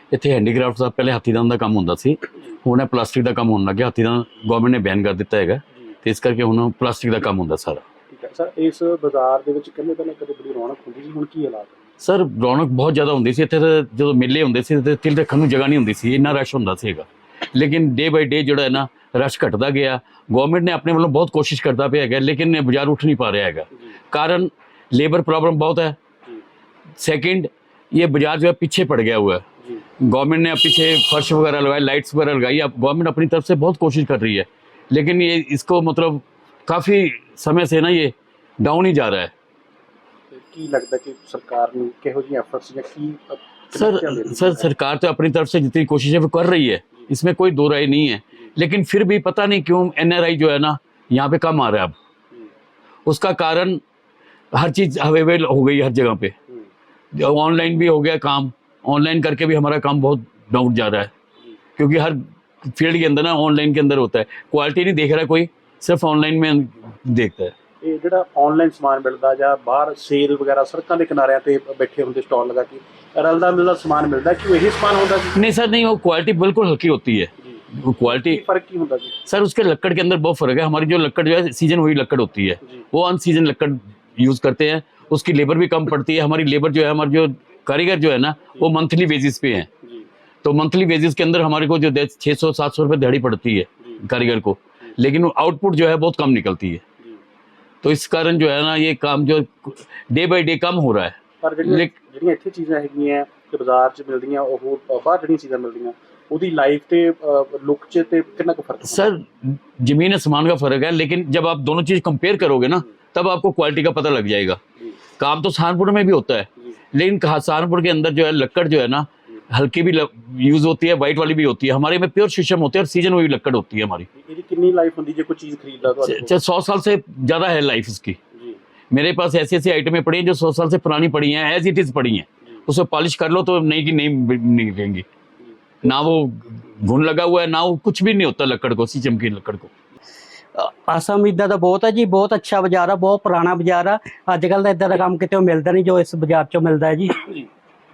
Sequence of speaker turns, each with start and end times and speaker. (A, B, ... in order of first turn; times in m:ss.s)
0:00.1-0:07.8 A
0:08.1-0:11.8 B
0:12.0-0:26.0 A
0:27.0-0:29.4 A
0:30.0-0:39.3 A
0:40.3-0:44.7 B
0:43.7-0:51.9 A
0:53.0-0:53.8 A
0:54.5-0:56.3 A
0:57.1-1:01.1 A
1:01.8-1:07.5 A
1:07.8-1:15.4 B
1:15.3-1:18.4 A
1:17.4-1:19.2 B
1:19.2-1:29.7 A
1:30.4-1:36.8 A
1:37.8-1:41.9 A
1:41.4-1:49.1 B
1:48.8-1:54.6 A
1:55.2-2:04.1 A
2:04.2-2:06.3 B
2:06.0-2:08.2 A
2:08.3-2:08.6 B
2:08.9-2:15.0 A
2:15.8-2:19.7 A
2:20.6-2:27.1 C